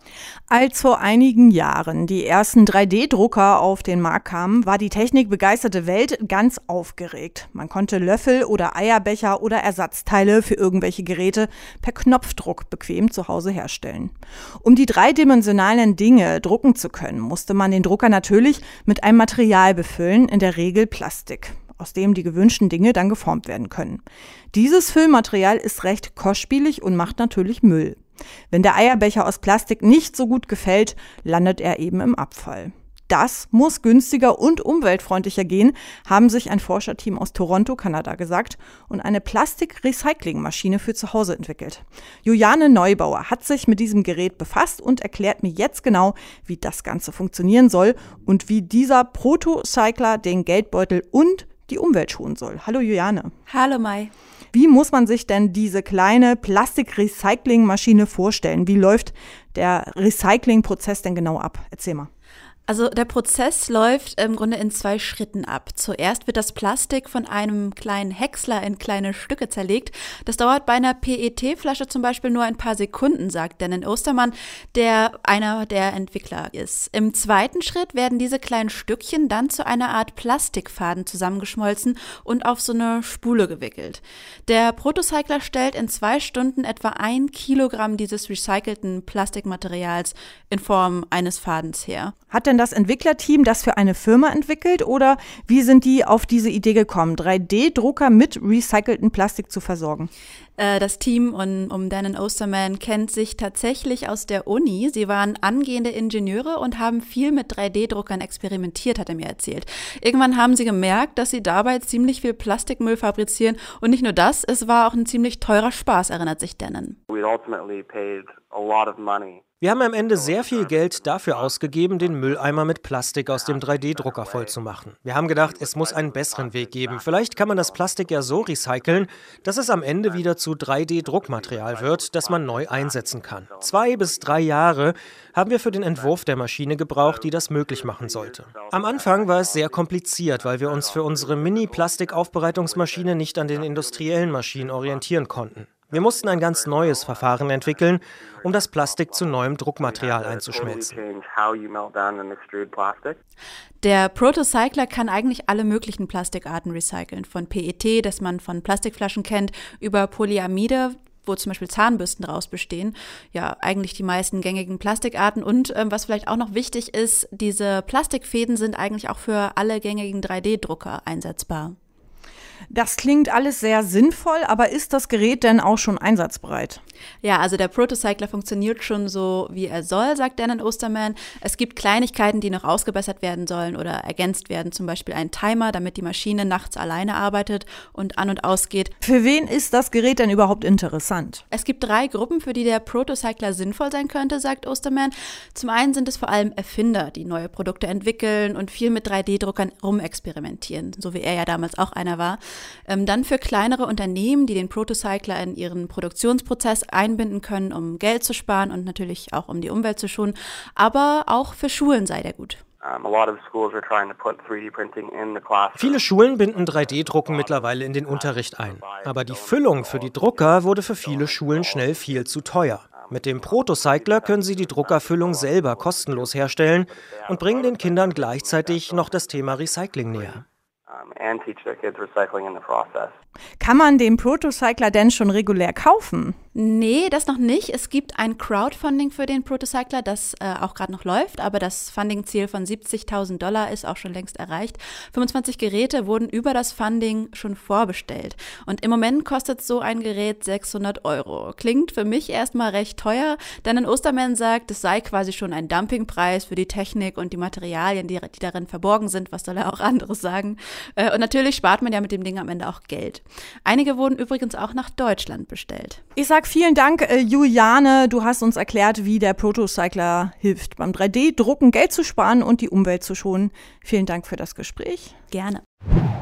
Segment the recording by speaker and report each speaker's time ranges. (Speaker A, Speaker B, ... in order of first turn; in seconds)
Speaker A: 0.5-24.0, 24.5-28.0, 28.5-53.3, 54.5-62.1, 92.3-100.1, 172.7-176.8, 189.0-191.4, 233.6-236.3, 266.1-275.1
Speaker B: 53.5-54.1, 62.7-92.1, 100.6-119.4, 119.9-122.7, 123.3-124.5, 125.4-130.4, 131.0-136.2, 137.0-145.1, 145.9-153.2, 153.8-171.8, 177.2-188.9, 191.5-233.1, 236.5-266.0, 275.3-275.6
Speaker C: 119.6-151.0, 215.7-230.4